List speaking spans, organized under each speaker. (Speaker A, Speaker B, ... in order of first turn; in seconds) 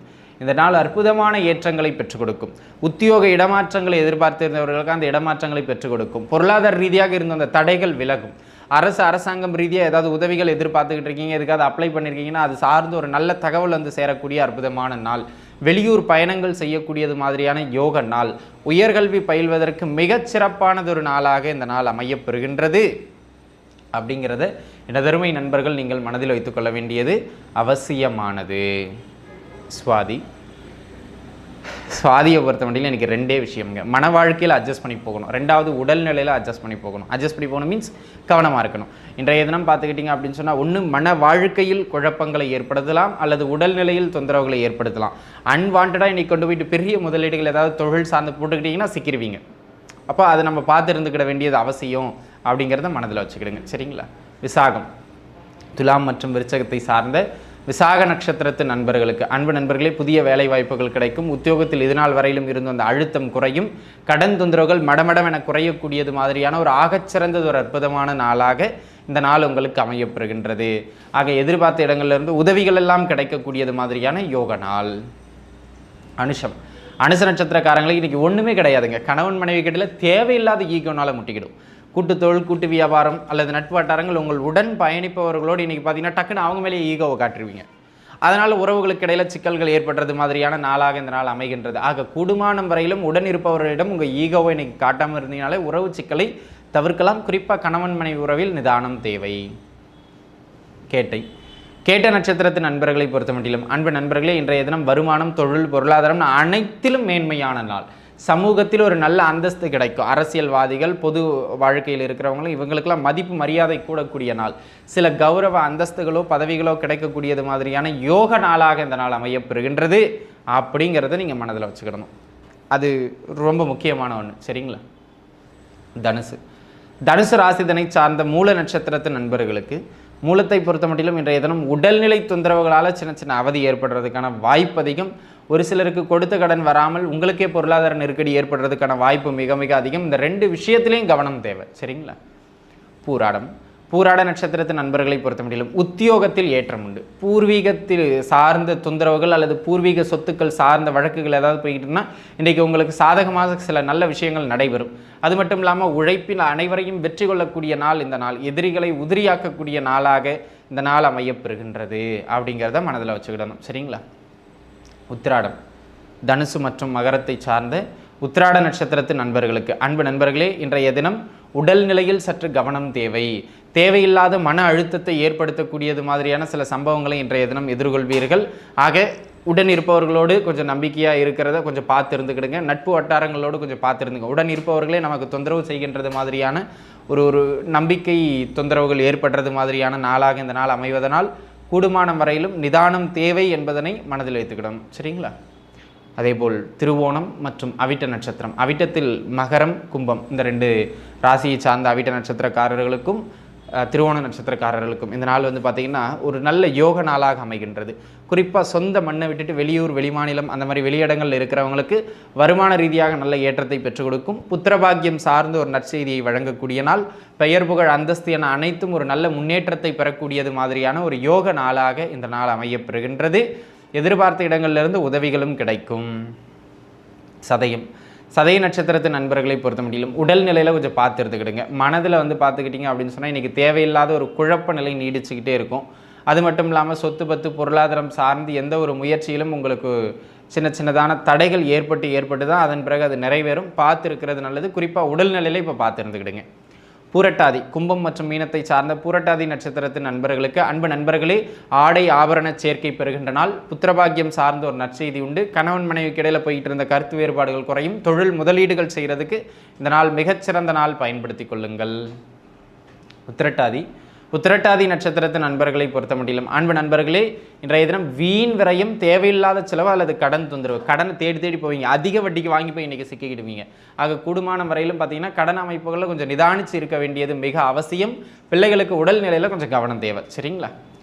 Speaker A: 0.4-22.9, 23.9-28.9, 29.7-30.2, 31.9-49.4, 50.1-54.9, 55.8-74.9, 76.2-87.7, 88.2-99.4, 100.9-101.2, 101.9-120.0, 120.5-122.1, 122.7-124.8, 126.0-126.4, 127.1-142.2, 143.0-164.0, 165.1-165.6, 166.3-195.3, 196.2-200.7, 201.2-203.2, 203.8-223.4, 224.0-226.1, 227.4-239.9, 240.5-246.4, 247.1-262.0, 263.3-280.7